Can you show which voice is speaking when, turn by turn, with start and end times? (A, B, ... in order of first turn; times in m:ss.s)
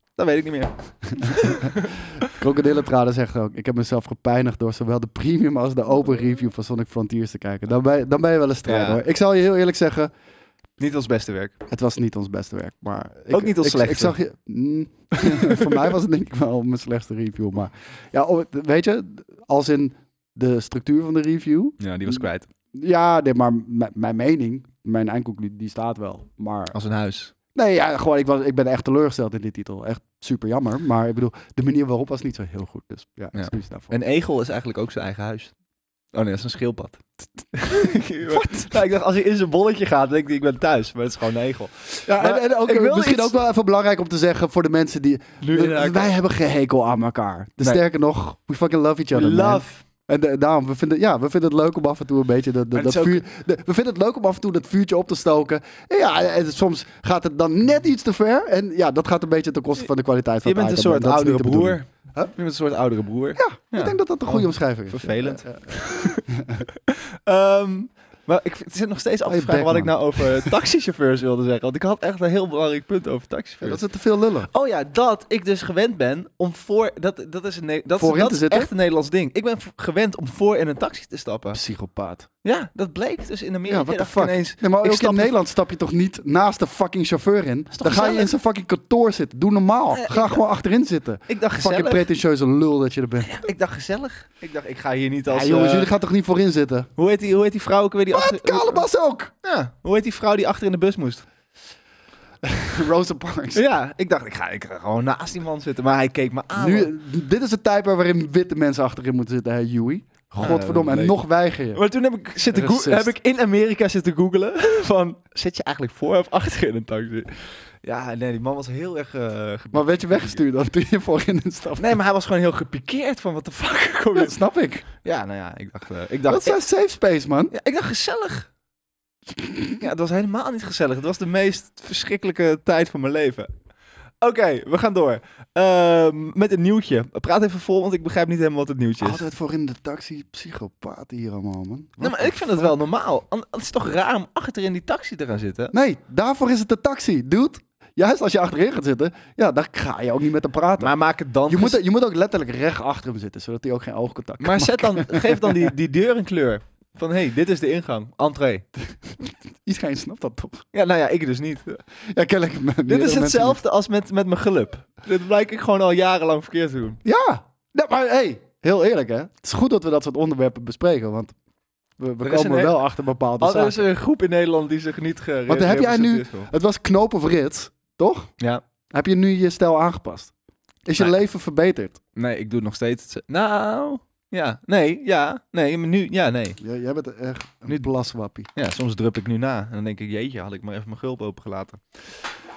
0:00.2-0:02.3 A
0:01.2-0:10.1 B
0:08.6-0:09.0 A
0:10.8-0:11.5 A
0:11.7-0:26.7 B
0:13.3-0:14.2 A
0:15.1-0:15.9 A
0:21.8-0:22.5 A
0:26.7-0:27.3 A
0:27.5-0:33.9 B
0:33.3-0:35.5 A
0:36.1-0:43.4 A
0:38.2-0:38.7 B
0:42.1-1:02.3 B
0:45.4-0:46.1 A
0:49.1-0:49.8 A
0:52.7-0:53.2 A
1:00.4-1:13.8 A
1:03.4-1:06.7 B
1:09.2-1:10.5 B
1:13.6-1:14.5 B
1:14.5-1:21.6 A
1:18.0-1:18.7 B
1:21.5-1:22.3 B
1:22.4-1:25.3 A
1:23.7-1:33.3 B
1:27.7-1:28.3 A
1:29.9-1:30.4 A
1:31.3-1:32.1 A
1:33.2-1:35.9 A
1:35.3-1:36.9 B
1:37.0-1:38.8 A
1:38.1-1:39.3 B
1:39.4-1:41.2 A
1:42.4-1:43.6 B
1:43.5-1:46.9 A
1:46.5-1:51.8 B
1:50.4-1:51.2 A
1:51.7-2:00.4 A
1:52.5-1:53.1 B
1:59.7-2:02.0 B
2:01.8-2:04.4 A
2:04.1-2:04.8 B
2:05.0-2:06.6 A
2:06.3-2:07.5 B
2:07.5-2:08.5 A
2:09.4-2:09.7 B
2:09.8-2:13.5 A
2:14.2-2:19.2 A
2:19.0-2:22.7 B
2:22.0-2:25.7 A
2:25.7-2:30.9 B
2:30.8-2:31.8 A
2:31.5-2:35.7 B
2:34.4-2:38.6 A
2:39.2-2:40.6 B
2:40.7-2:41.8 A
2:42.0-2:43.6 B
2:42.9-2:47.0 A
2:47.0-2:51.3 B
2:52.0-2:53.9 B
2:52.2-2:52.8 A
2:53.4-2:56.5 A
2:55.5-2:58.3 B
2:58.9-3:00.3 B
3:00.8-3:02.0 B
3:02.2-3:06.6 A
3:06.6-3:08.5 B
3:08.5-3:12.2 A